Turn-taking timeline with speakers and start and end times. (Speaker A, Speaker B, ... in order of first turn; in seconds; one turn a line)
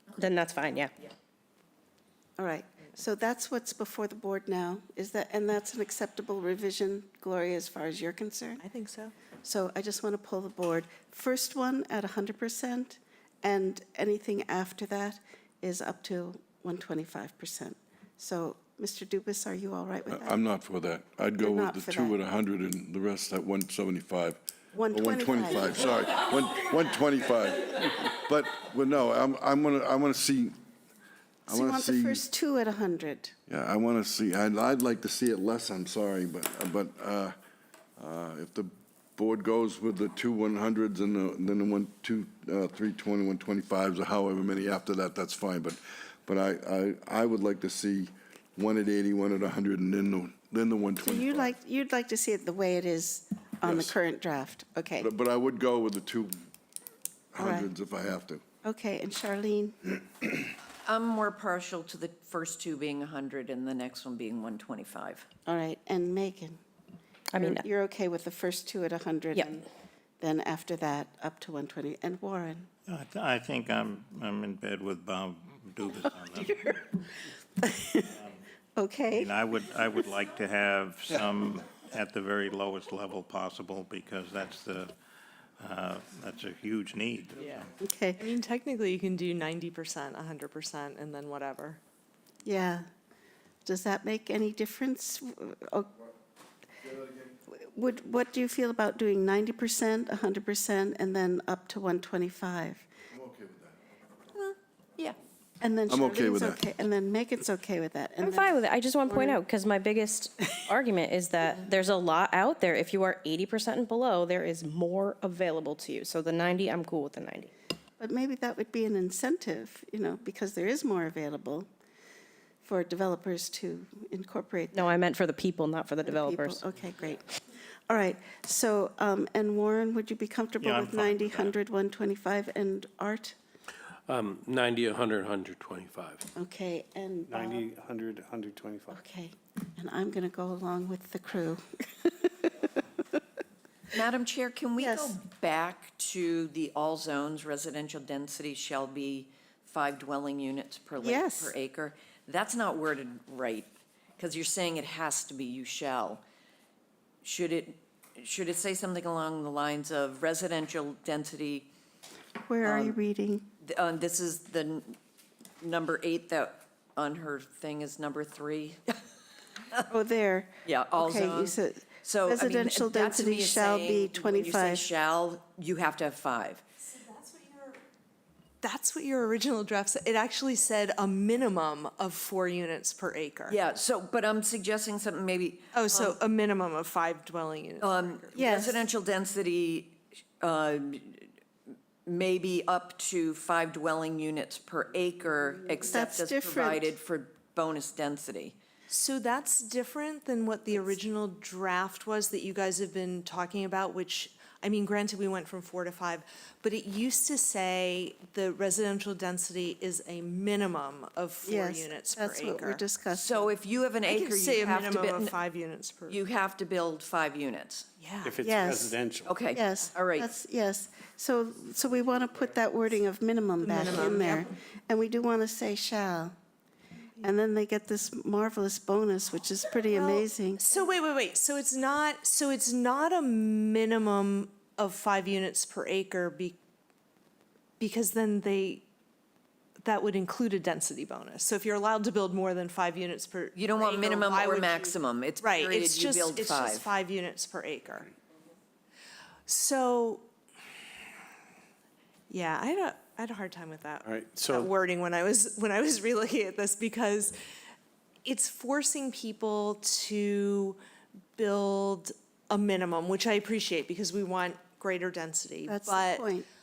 Speaker A: 0.1-0.9
Speaker B: 2.4-8.6
Speaker C: 8.6-9.1
Speaker B: 9.4-20.4
Speaker D: 20.1-24.4
Speaker B: 21.4-22.2
Speaker B: 24.7-26.1
Speaker D: 24.9-30.6
Speaker D: 31.5-32.2
Speaker B: 31.5-33.3
Speaker D: 33.5-37.3
Speaker D: 38.0-51.5
Speaker B: 51.0-55.1
Speaker D: 53.6-54.0
Speaker D: 55.0-56.3
Speaker D: 57.3-58.4
Speaker B: 57.4-57.7
Speaker B: 58.6-59.9
Speaker E: 60.9-65.3
Speaker B: 65.5-66.6
Speaker A: 67.3-67.6
Speaker B: 67.3-69.6
Speaker B: 70.2-72.7
Speaker F: 72.9-76.8
Speaker B: 77.6-78.1
Speaker B: 78.8-79.4
Speaker F: 79.1-84.9
Speaker F: 85.6-87.7
Speaker C: 87.4-87.7
Speaker B: 87.8-88.2
Speaker C: 88.2-91.8
Speaker B: 92.4-92.8
Speaker B: 93.6-95.9
Speaker B: 97.5-102.9
Speaker D: 103.1-103.7
Speaker E: 104.3-105.2
Speaker B: 105.6-109.4
Speaker D: 105.9-106.6
Speaker A: 108.2-117.5
Speaker B: 118.0-121.7
Speaker B: 122.6-124.9
Speaker A: 124.7-126.6
Speaker B: 126.0-127.2
Speaker B: 127.9-133.3
Speaker F: 130.6-131.6
Speaker G: 134.1-136.2
Speaker B: 136.3-137.7
Speaker H: 137.3-139.0
Speaker B: 138.9-142.7
Speaker E: 143.9-156.2
Speaker B: 144.8-145.2
Speaker B: 151.0-151.5
Speaker E: 157.2-161.7
Speaker B: 162.4-163.5
Speaker E: 162.6-163.0
Speaker E: 163.6-165.0
Speaker E: 165.6-169.0
Speaker B: 169.9-174.9
Speaker E: 170.6-176.6
Speaker C: 176.8-177.8
Speaker C: 178.6-183.6
Speaker E: 183.5-186.2
Speaker C: 185.7-188.4
Speaker E: 187.8-191.3
Speaker B: 188.3-188.9
Speaker E: 192.1-198.6
Speaker B: 195.9-196.9
Speaker C: 198.9-212.8
Speaker B: 211.4-213.5
Speaker E: 213.1-215.3
Speaker C: 214.0-216.2
Speaker E: 216.1-217.9
Speaker C: 218.0-218.5
Speaker H: 218.2-219.4
Speaker B: 218.4-218.9
Speaker E: 219.2-220.3
Speaker B: 219.5-226.3
Speaker C: 223.6-224.5
Speaker B: 227.2-230.6
Speaker C: 229.9-236.6
Speaker C: 237.8-238.8
Speaker C: 239.8-248.1
Speaker E: 243.5-246.9
Speaker C: 249.5-250.3
Speaker C: 252.3-257.4
Speaker H: 254.0-254.7
Speaker C: 258.2-260.8
Speaker C: 261.4-266.3
Speaker B: 265.7-266.4